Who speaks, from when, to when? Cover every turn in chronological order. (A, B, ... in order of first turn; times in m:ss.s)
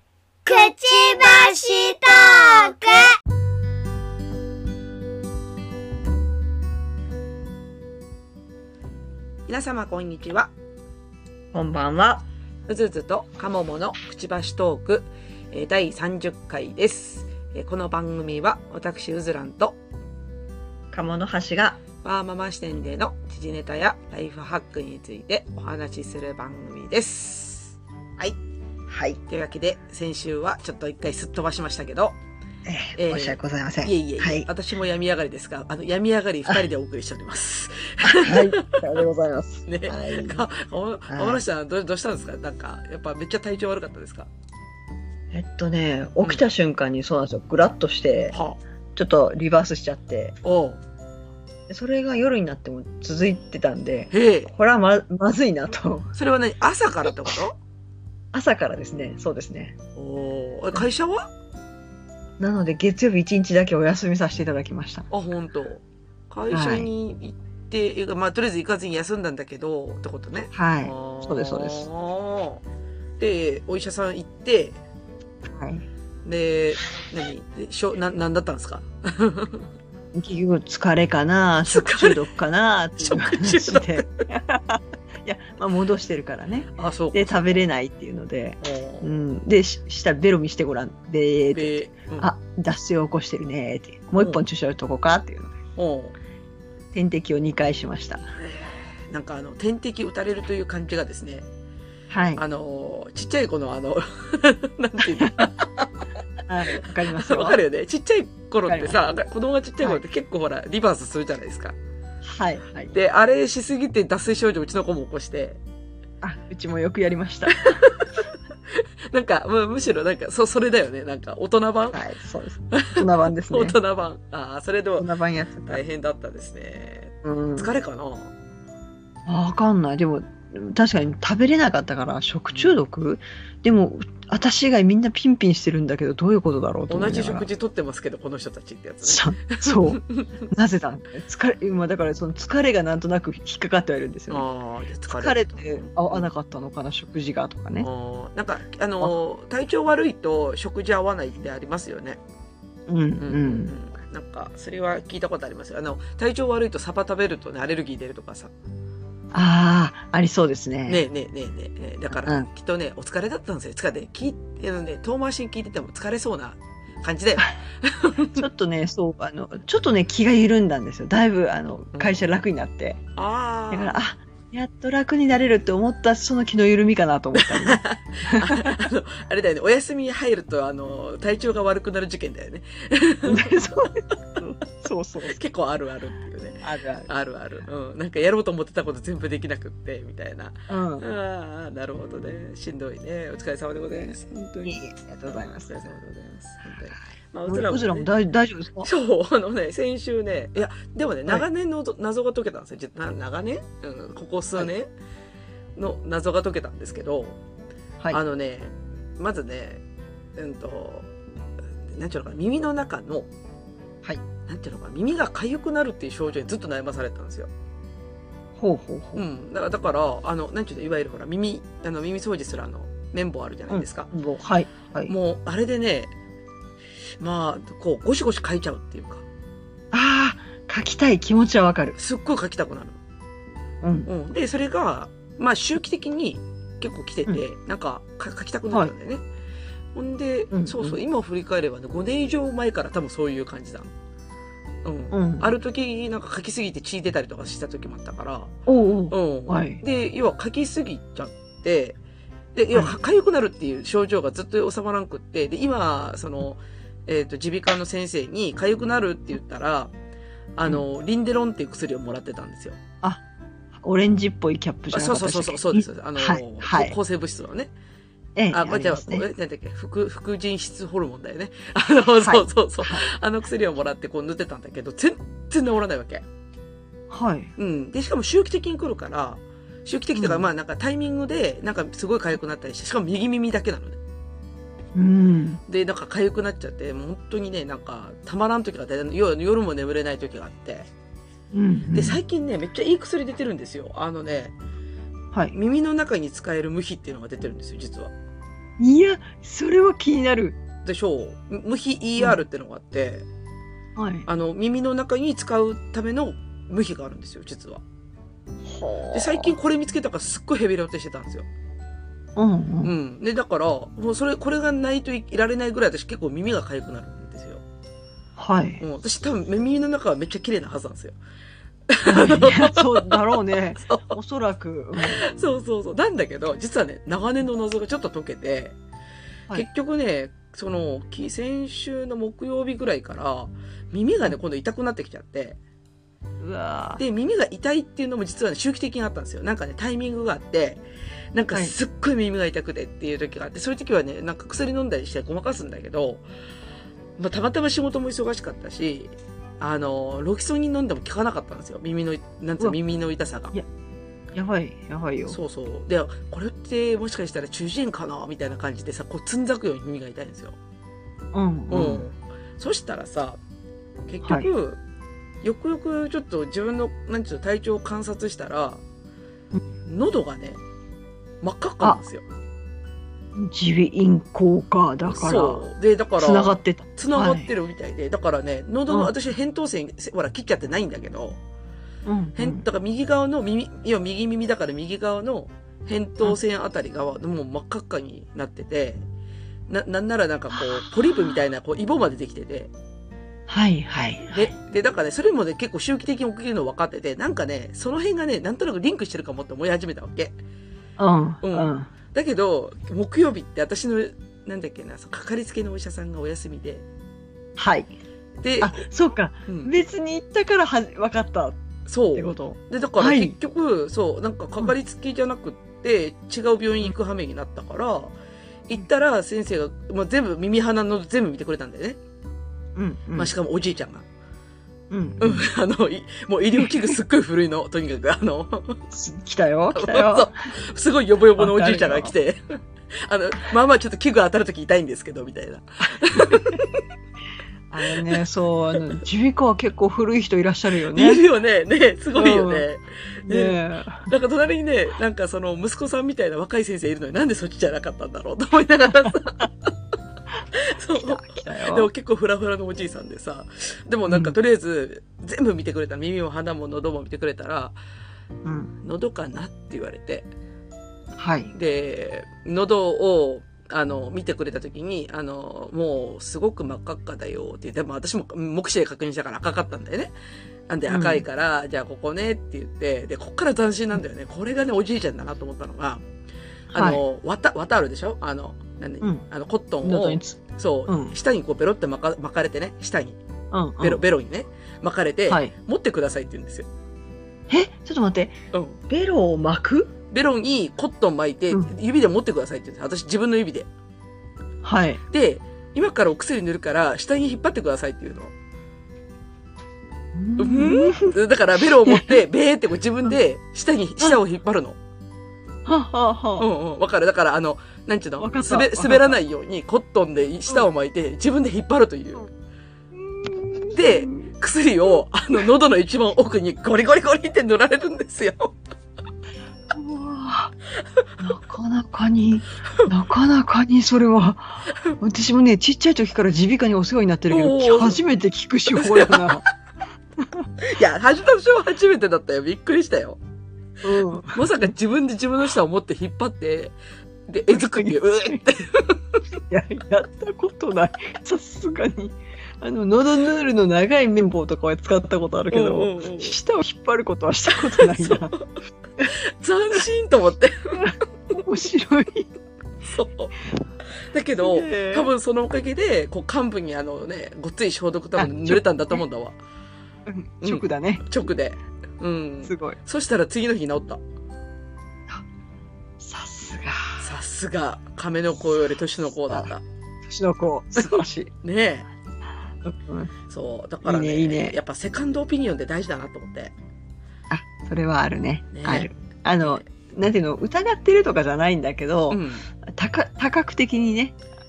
0:00.4-0:03.1 A
0:09.5-0:10.5 B
0:11.5-0:12.2 C
0:12.7-0:19.8 B
0:20.9-0:21.8 C
0:22.0-0:28.4 B
0:28.9-0:29.2 C
0:29.3-0:32.2 B
0:32.6-0:34.5 C
0:32.9-0:38.8 B
0:38.0-0:40.4 C
0:39.7-0:44.3 B
0:41.1-0:41.4 C
0:45.3-0:48.4 C
0:48.3-0:48.6 B
0:49.0-0:50.4 C
0:50.4-0:50.8 B
0:51.7-0:56.1 C
0:54.1-0:54.5 B
0:56.1-0:57.6 B
0:58.3-0:59.8 C
1:00.0-1:01.3 B
1:02.4-1:05.1 C
1:05.1-1:12.6 B
1:06.5-1:06.9 C
1:10.5-1:11.9 C
1:13.2-1:14.8 B
1:15.4-1:15.9 C
1:16.2-1:19.7 B
1:20.1-1:35.5 C
1:21.6-1:22.2 B
1:23.0-1:24.2 B
1:26.7-1:27.6 B
1:28.6-1:29.2 B
1:31.5-1:32.3 B
1:35.8-1:36.1 B
1:36.9-1:38.3 C
1:38.4-1:41.4 B
1:42.1-1:42.4 C
1:42.4-1:46.0 B
1:45.2-1:45.4 C
1:46.5-1:47.6 C
1:46.8-1:51.8 B
1:48.7-1:49.0 C
1:52.2-1:52.9 C
1:52.9-1:55.6 B
1:56.2-1:57.9 C
1:57.5-1:58.2 B
1:58.7-2:02.0 B
2:01.9-2:03.8 C
2:02.7-2:05.1 B
2:05.0-2:05.8 C
2:05.6-2:08.3 B
2:07.2-2:07.7 C
2:09.3-2:17.5 C
2:12.5-2:12.8 B
2:16.9-2:20.4 B
2:19.0-2:24.4 C
2:24.3-2:26.3 B
2:25.1-2:27.9 C
2:27.8-2:32.2 B
2:32.9-2:33.7 C
2:33.2-2:38.5 B
2:39.3-2:41.0 C
2:40.9-2:48.4 B
2:42.1-2:42.5 C
2:48.4-2:53.0 C
2:51.9-2:52.2 B
2:53.2-2:54.0 B
2:53.7-2:58.7 C
2:57.3-3:03.9 B
3:03.3-3:05.4 C
3:05.3-3:18.1 B
3:06.6-3:07.1 C
3:10.7-3:11.0 C
3:14.6-3:15.7 C
3:17.5-3:18.9 C
3:18.8-3:24.9 B
3:25.8-3:27.4 B
3:28.1-3:29.8 B
3:30.4-3:31.1 B
3:31.9-3:33.3 B
3:34.5-3:37.5 B
3:38.6-3:39.2 C
3:39.1-3:44.1 B
3:43.7-3:45.1 C
3:45.1-3:46.1 B
3:47.2-3:49.2 B
3:49.9-3:52.0 C
3:52.0-3:53.0 B
3:53.8-3:54.1 C
3:54.0-3:59.2 B
3:59.9-4:03.9 B
4:00.5-4:01.0 C
4:04.8-4:08.5 B
4:05.1-4:05.5 C
4:08.7-4:09.8 C
4:09.1-4:12.0 B
4:12.5-4:19.9 B
4:20.6-4:22.8 B
4:23.8-4:27.0 C
4:24.9-4:27.7 B
4:28.4-4:29.2 C
4:28.5-4:36.2 B
4:32.2-4:33.0 C
4:37.1-4:37.5 C
4:37.6-4:44.0 B
4:40.1-4:40.5 C
4:44.9-4:45.6 C
4:45.7-4:50.9 B
4:51.5-4:52.2 C
4:51.9-4:54.5 B
4:55.5-4:58.1 B
4:58.8-5:00.6 C
5:00.8-5:03.2 B
5:04.0-5:04.2 C
5:04.2-5:07.8 B
5:08.7-5:09.6 C
5:09.1-5:11.5 B
5:12.4-5:12.9 C
5:12.8-5:17.6 B
5:18.4-5:18.8 C
5:18.8-5:21.2 B
5:21.9-5:23.2 B
5:22.0-5:25.2 C
5:23.8-5:24.1 B
5:25.0-5:28.8 B
5:29.5-5:35.6 B
5:36.4-5:37.0 C
5:37.0-5:40.8 B
5:41.3-5:46.2 B
5:47.2-5:53.6 B
5:54.3-5:55.4 C
5:55.3-6:00.6 B
6:01.3-6:02.0 C
6:01.7-6:03.4 B
6:04.1-6:04.8 B
6:05.4-6:08.8 B
6:09.8-6:10.6 B
6:11.4-6:12.2 B
6:13.4-6:15.6 C
6:15.1-6:21.4 B
6:16.2-6:17.5 C
6:22.0-6:22.6 C
6:22.4-6:29.0 B
6:29.7-6:32.7 B
6:33.5-6:34.5 C
6:34.3-6:40.3 B
6:41.0-6:41.9 C
6:41.4-6:46.8 B
6:47.6-6:47.9 C
6:48.4-6:48.8 B
6:48.6-6:51.6 C
6:49.5-6:49.7 B
6:51.9-6:58.1 B
6:52.1-6:53.4 C
6:58.7-7:02.0 B
7:02.8-7:03.3 C
7:03.1-7:04.0 B
7:04.9-7:05.4 C
7:05.2-7:08.8 B
7:06.6-7:06.9 C
7:08.9-7:10.3 C
7:09.7-7:12.4 B
7:11.4-7:12.1 C
7:13.0-7:16.8 B
7:16.3-7:16.6 C
7:17.7-7:21.2 C
7:17.8-7:18.1 B
7:20.9-7:29.7 B
7:22.1-7:22.6 C
7:23.3-7:24.1 C
7:30.5-7:37.7 B
7:30.9-7:31.9 C
7:34.1-7:34.4 C
7:38.4-7:38.7 C
7:38.8-7:40.3 B
7:41.2-7:41.5 C
7:41.5-7:50.1 B
7:50.7-7:56.0 B
7:50.9-7:51.2 C
7:56.7-7:57.0 C
7:56.7-8:03.2 B
7:59.8-8:01.2 C
8:03.5-8:04.0 C
8:03.8-8:06.7 B
8:07.5-8:08.3 C
8:08.5-8:08.8 B
8:08.9-8:09.9 C
8:10.1-8:13.7 B
8:14.6-8:15.0 C
8:15.1-8:18.3 B
8:20.1-8:21.2 C
8:20.4-8:24.8 B
8:21.8-8:22.1 C
8:25.6-8:26.5 C
8:26.4-8:32.3 B
8:28.2-8:29.2 C
8:32.9-8:34.3 C
8:33.7-8:38.6 B
8:39.7-8:40.5 C
8:41.2-8:49.4 C
8:47.3-8:48.0 B
8:48.7-8:49.2 B
8:50.2-8:50.5 C
8:50.6-8:53.2 B
8:53.8-8:54.4 C
8:54.2-8:56.7 B
8:57.3-8:59.2 B
8:57.5-8:58.4 C
8:59.5-9:08.4 C
9:05.5-9:06.3 B
9:07.7-9:08.4 B
9:09.0-9:11.3 B
9:10.8-9:12.3 C
9:12.8-9:13.4 B
9:14.0-9:19.4 B
9:14.4-9:15.1 C
9:18.2-9:19.0 C
9:20.0-9:21.0 C
9:20.4-9:24.0 B
9:22.4-9:22.8 C
9:26.0-9:27.0 C
9:27.0-9:29.6 B
9:30.0-9:31.3 C
9:30.8-9:31.9 B
9:32.6-9:33.1 C
9:33.3-9:36.5 B
9:33.8-9:34.6 C
9:37.3-9:44.2 C
9:38.5-9:38.9 B
9:42.1-9:42.4 B